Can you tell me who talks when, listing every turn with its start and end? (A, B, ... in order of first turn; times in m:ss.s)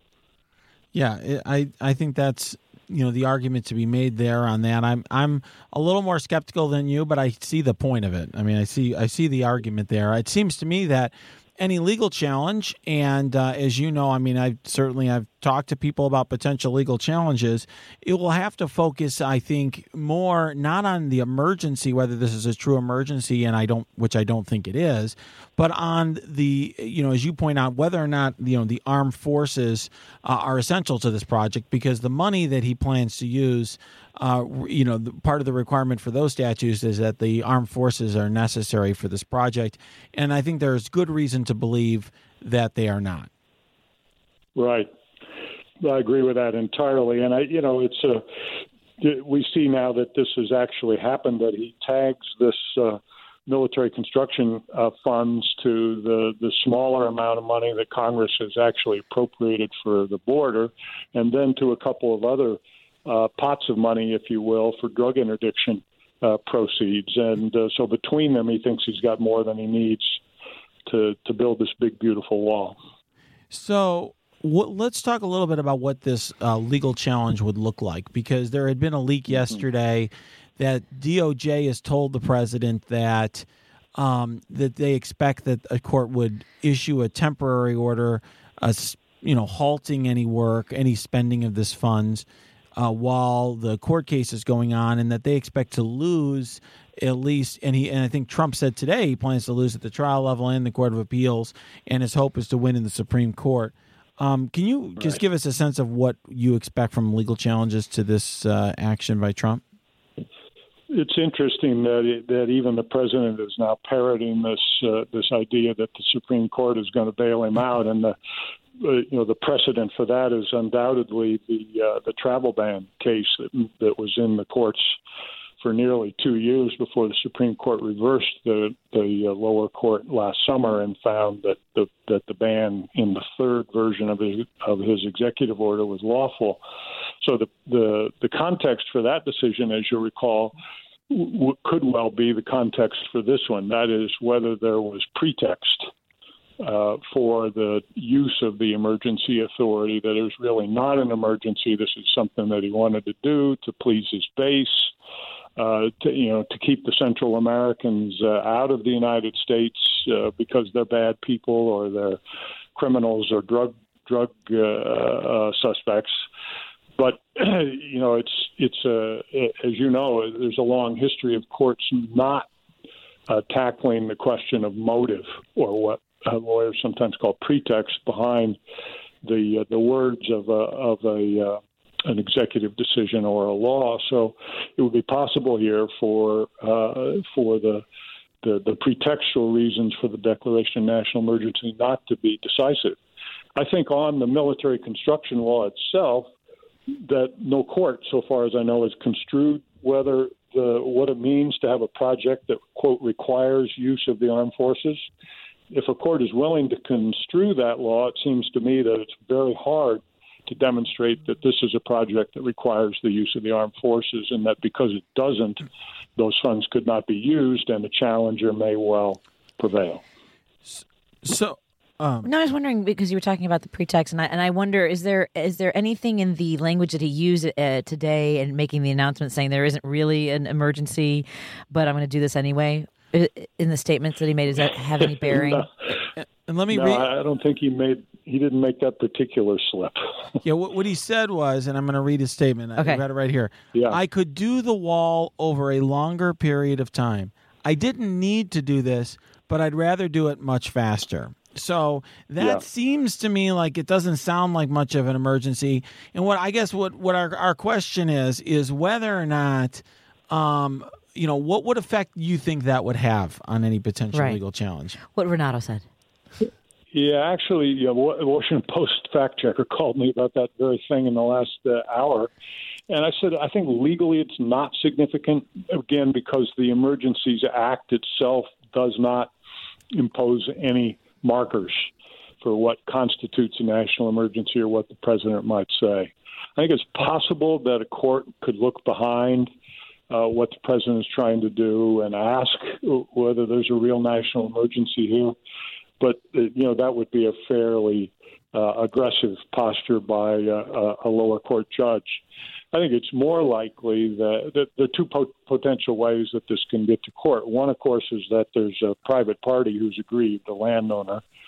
0:00.9-0:43.3 A
0:44.6-0:44.9 B
0:45.8-0:48.2 B
0:49.0-1:10.2 B
1:10.9-1:12.8 B
1:13.5-1:32.2 A
1:32.8-1:49.6 A
1:50.9-1:58.2 B
1:58.8-2:05.0 B
2:05.6-2:16.6 B
2:17.2-2:20.6 B
2:21.1-2:25.9 B
2:26.6-2:34.9 B
2:35.6-2:42.2 B
2:42.8-2:46.1 B
2:47.0-2:52.5 B
2:53.3-2:58.6 B
2:59.2-3:07.8 B
3:08.4-3:13.0 B
3:13.6-3:16.3 B
3:17.0-3:25.0 B
3:25.7-3:40.0 B
3:40.7-3:42.3 A
3:42.2-3:55.7 C
3:55.3-3:55.6 B
3:56.5-3:57.1 A
3:56.7-4:00.0 B
4:00.4-4:25.0 A
4:02.8-4:03.0 C
4:24.1-4:24.4 C
4:25.1-4:25.9 C
4:26.9-4:32.3 B
4:32.9-4:39.3 B
4:39.9-4:41.9 B
4:42.4-4:49.5 B
4:50.1-4:55.4 B
4:56.0-5:02.2 B
5:02.7-5:11.2 B